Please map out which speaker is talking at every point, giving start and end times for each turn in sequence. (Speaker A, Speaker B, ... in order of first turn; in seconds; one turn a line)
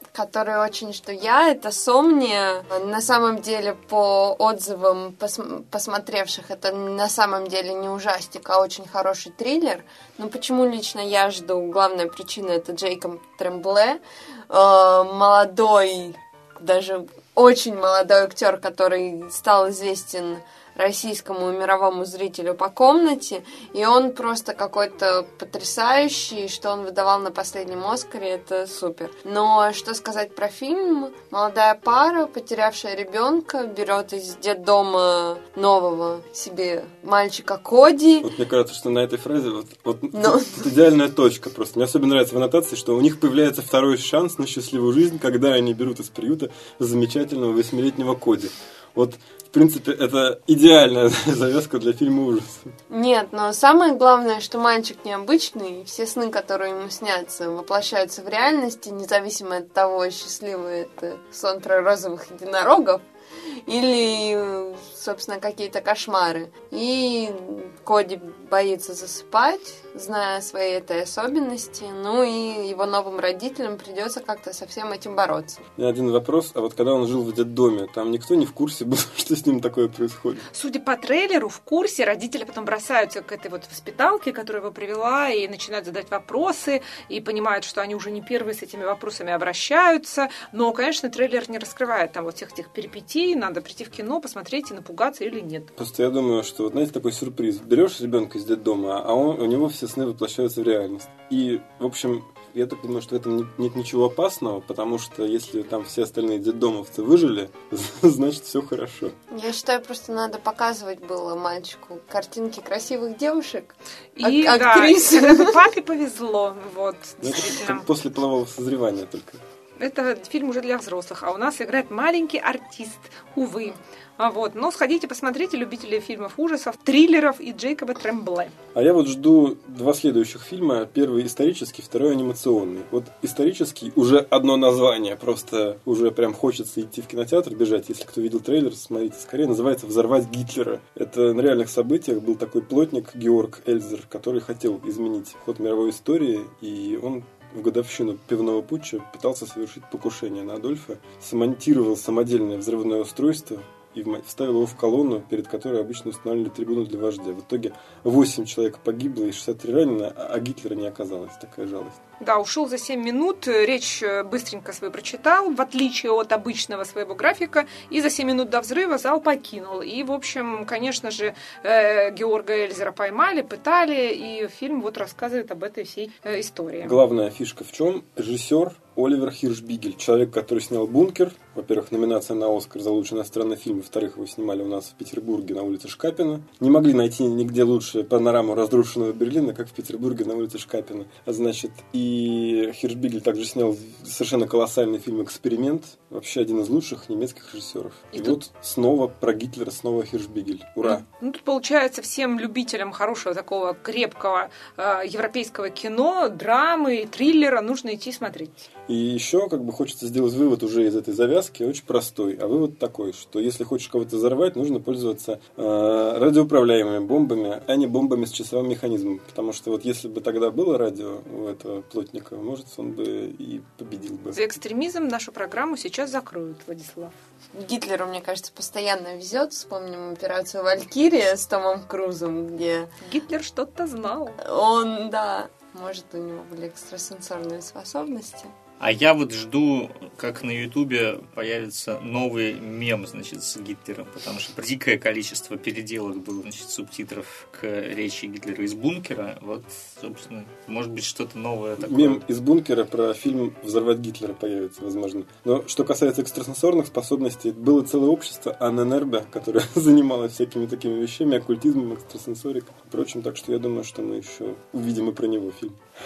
Speaker A: 0.1-38.3
Speaker B: 38.2-52.7
Speaker A: 40.1-40.7
Speaker A: 52.9-63.0
Speaker A: 63.6-75.6
Speaker B: 75.8-80.5
Speaker C: 80.5-95.7
Speaker B: 95.8-109.2
Speaker A: 109.3-115.6
Speaker C: 114.2-117.9
Speaker B: 117.2-119.4
Speaker C: 119.8-128.5
Speaker B: 128.7-162.0
Speaker C: 162.2-177.0
Speaker B: 176.8-201.0
Speaker C: 200.8-208.7
Speaker B: 208.9-224.4
Speaker C: 224.3-227.1
Speaker A: 227.5-232.9
Speaker C: 233.0-234.4
Speaker A: 234.4-238.5
Speaker D: 238.8-252.2
Speaker B: 251.8-265.8